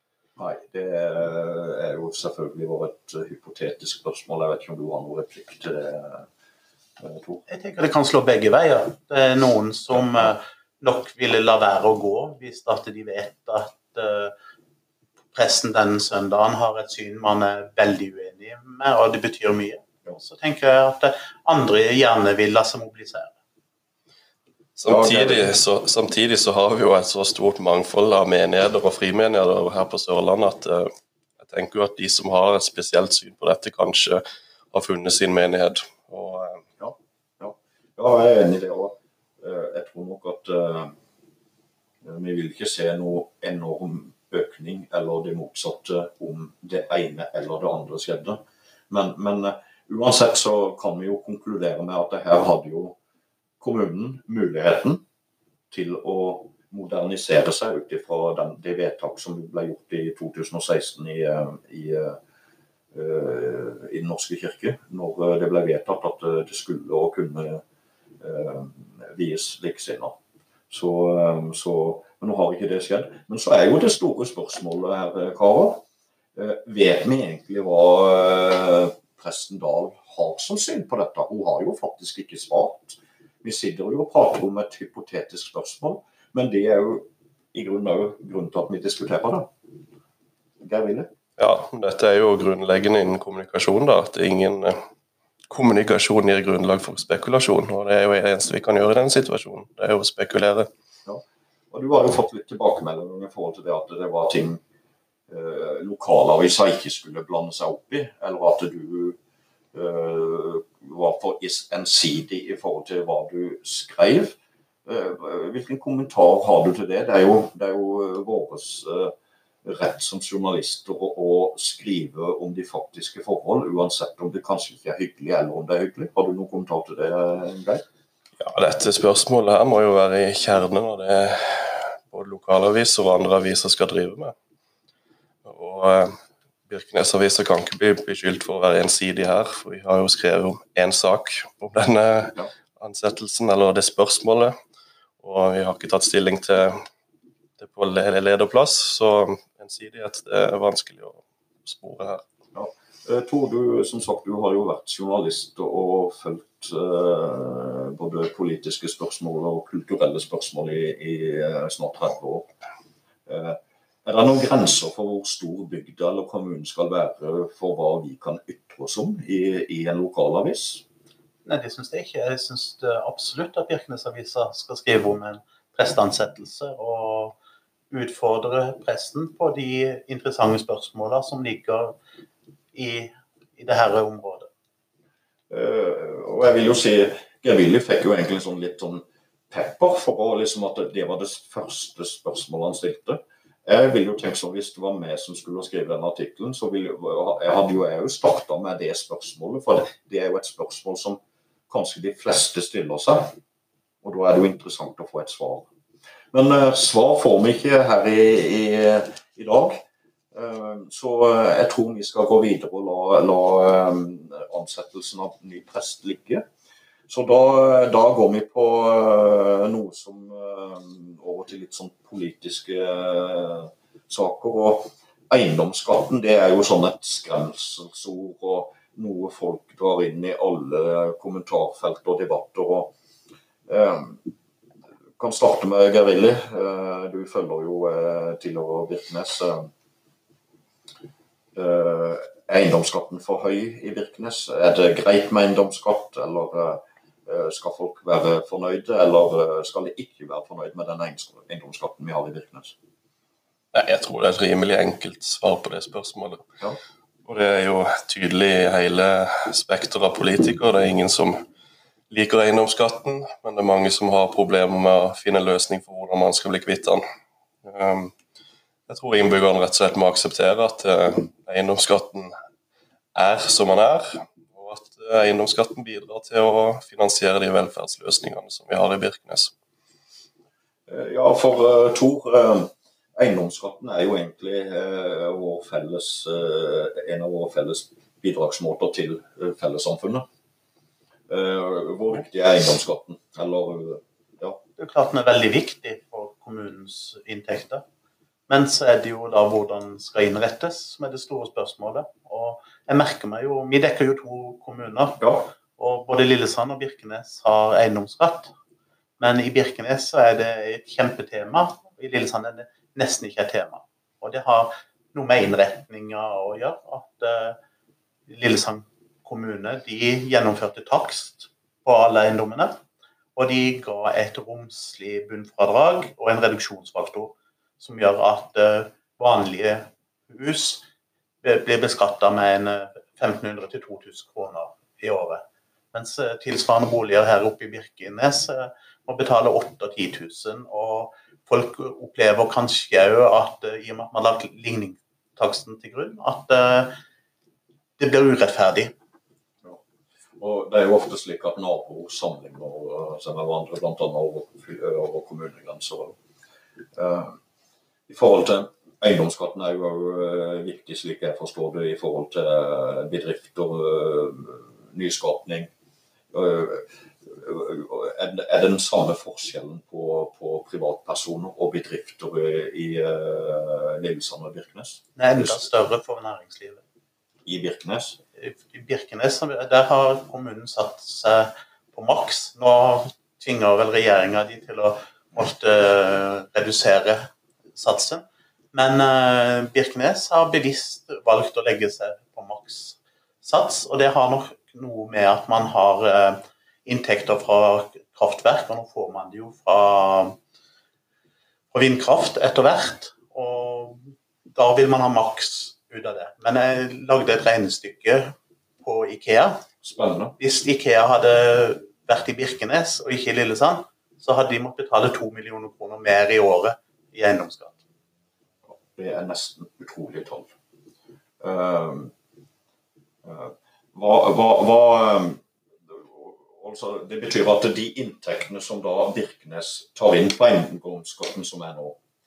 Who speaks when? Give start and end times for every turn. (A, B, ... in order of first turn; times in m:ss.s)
0:00.4-0:06.3 A
0:07.0-0:07.4 A
0:07.5-0:14.3 B
0:15.3-0:23.3 B
0:24.8-0:36.6 C
0:24.9-0:25.5 A
0:36.8-0:40.9 A
0:42.0-0:53.0 A
0:53.6-0:55.0 A
0:55.7-1:02.2 A
1:02.9-1:07.6 A
1:08.2-1:10.2 A
1:10.7-1:15.8 A
1:16.4-1:29.5 A
1:30.6-1:31.1 A
1:31.4-1:34.8 C
1:35.5-1:40.7 C
1:41.0-1:44.6 A
1:45.3-1:49.2 A
1:49.7-2:07.8 A
2:08.4-2:14.3 C
2:15.4-2:16.2 C
2:16.7-2:24.6 C
2:25.2-2:26.8 C
2:27.6-2:32.2 C
2:32.5-2:42.5 A
2:43.2-2:50.8 A
2:51.4-2:57.4 B
2:57.9-3:02.0 B
3:02.7-3:04.5 B
3:05.5-3:23.4 A
3:24.0-3:25.7 A
3:26.3-3:36.4 A
3:37.1-3:52.9 A
3:53.7-3:54.2 A
3:55.2-3:59.7 A
4:01.5-4:12.8 A
4:13.7-4:16.5 C
4:17.2-4:21.4 C
4:22.1-4:27.0 C
4:27.6-4:28.1 C
4:28.9-4:32.3 C
4:33.1-4:39.5 C
4:40.9-4:50.2 A
4:51.3-4:54.6 A
4:54.8-4:57.8 B
4:58.5-5:08.5 B
5:05.2-5:05.5 A
5:09.2-5:17.6 B
5:18.3-5:22.8 B
5:23.4-5:30.8 B
5:31.4-5:35.4 B
5:35.9-5:47.0 B
5:48.0-5:48.9 B
5:50.4-5:56.2 A
5:57.0-5:57.4 A
5:58.1-6:05.7 A
6:06.3-6:15.6 A
6:15.2-6:16.8 B
6:17.4-6:18.2 A
6:18.4-6:40.4 B
6:41.7-6:49.6 B
6:49.8-6:50.4 A
6:50.4-6:57.8 B
6:58.7-7:00.5 A
7:01.4-7:02.1 A
7:03.2-7:12.0 A